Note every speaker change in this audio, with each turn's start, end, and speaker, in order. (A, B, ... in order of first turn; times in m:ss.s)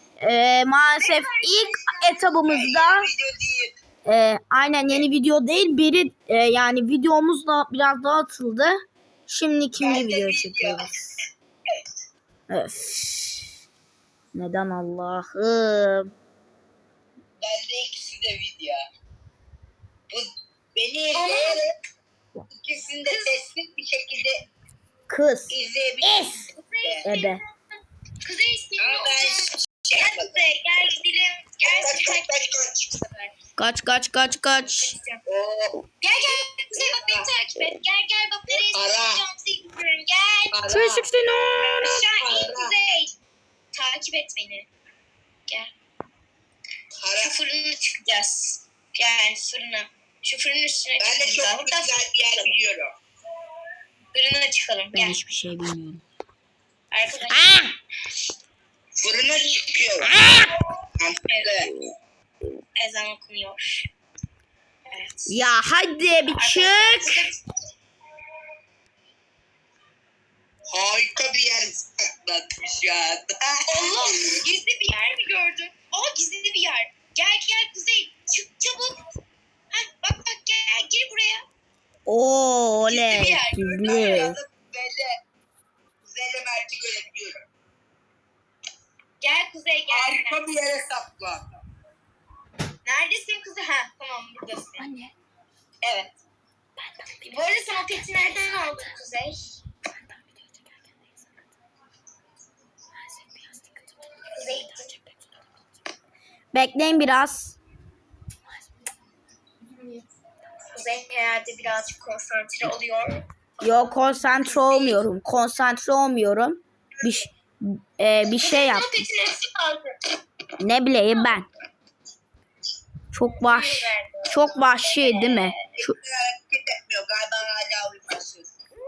0:00.2-0:03.1 A
0:01.0-0:02.4 B
0:02.4-0:03.8 C
0:04.0-0:08.8 A
0:09.3-0:10.9 A
0:09.8-0:10.9 C
0:12.5-0:13.5 A
0:14.3-0:16.1 A
0:17.4-0:18.8 C
0:20.1-0:21.7 C
0:21.1-0:21.6 B
0:22.5-0:24.4 C
0:23.0-0:23.4 B
0:25.1-0:26.4 A
0:25.5-0:27.1 C
0:26.5-0:27.5 B
0:27.0-0:27.4 A
0:28.2-0:33.3 B
0:28.8-0:30.4 C
0:31.6-0:32.9 C
0:33.6-0:34.9 A
0:34.6-0:35.2 B
0:35.2-0:35.8 C
0:36.0-0:40.6 B
0:36.8-0:37.3 C
0:38.7-0:39.2 C
0:40.5-0:41.1 C
0:40.7-0:42.0 A
0:41.5-0:43.1 B
0:42.2-0:42.8 C
0:43.7-0:44.7 B
0:47.0-0:47.3 C
0:47.2-0:52.5 B
0:51.0-0:52.9 C
0:54.1-0:55.2 B
0:54.9-0:56.0 A
0:56.9-0:57.6 B
0:57.3-0:57.7 A
0:59.0-1:00.1 C
1:00.0-1:00.5 A
1:01.0-1:01.7 C
1:01.3-1:01.6 B
1:02.8-1:03.9 B
1:04.8-1:05.5 B
1:05.3-1:07.2 A
1:06.3-1:07.4 B
1:10.7-1:14.4 C
1:13.7-1:19.0 B
1:19.7-1:21.4 B
1:22.0-1:24.4 A
1:22.9-1:24.3 B
1:23.8-1:25.2 C
1:26.0-1:27.4 C
1:29.2-1:30.4 B
1:29.9-1:31.6 C
1:32.8-1:34.9 B
1:34.8-1:35.1 A
1:35.8-1:36.1 B
1:37.0-1:37.4 A
1:37.2-1:39.5 B
1:38.3-1:38.9 A
1:40.0-1:40.6 A
1:43.3-1:43.9 A
1:44.3-1:44.9 B
1:44.5-1:45.0 A
1:46.5-1:47.6 A
1:49.6-1:50.0 B
1:50.7-1:55.0 B
1:53.6-1:58.9 A
1:58.3-2:00.1 B
2:00.6-2:01.5 A
2:01.1-2:01.4 B
2:03.1-2:05.9 A
2:03.2-2:05.7 B
2:05.8-2:08.5 C